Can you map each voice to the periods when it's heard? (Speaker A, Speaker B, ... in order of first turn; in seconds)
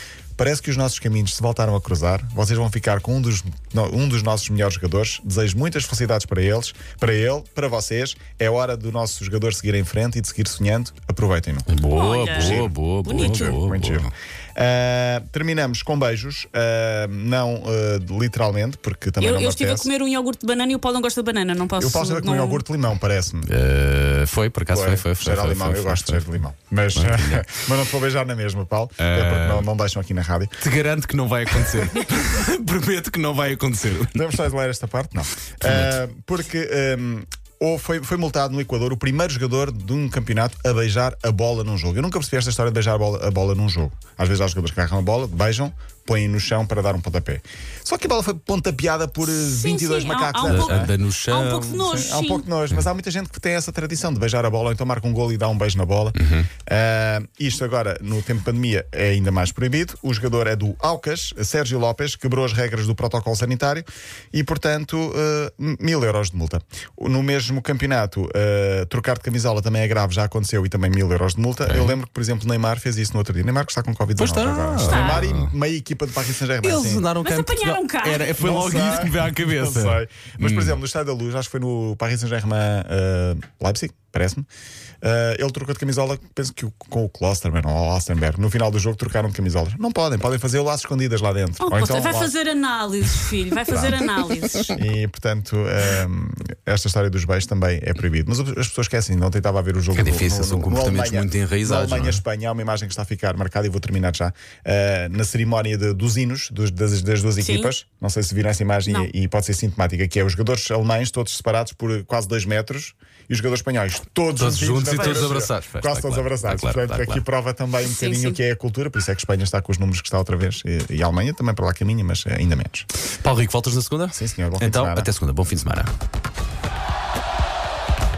Speaker A: 0.4-11.7, 12.3-19.9, 21.8-23.5, 24.7-30.6, 34.1-50.9, 51.9-77.1, 78.3-84.5, 85.0-92.3, 93.7-94.0, 94.7-122.9, 124.1-125.1
Speaker B: 11.7-14.1, 23.5-26.2, 26.9-27.6, 29.0-29.7, 30.6-34.3, 35.6-36.0, 50.4-51.9, 56.1-56.5, 71.6-72.0, 74.2-75.5, 76.6-80.8, 94.3-94.7, 99.9-102.2, 114.4-117.2, 123.2-125.9
Speaker C: 11.9-13.6, 19.2-22.6, 49.2-52.5, 74.8-75.3, 77.2-78.3, 91.6-94.8, 107.4-107.7, 114.9-115.4, 117.8-118.4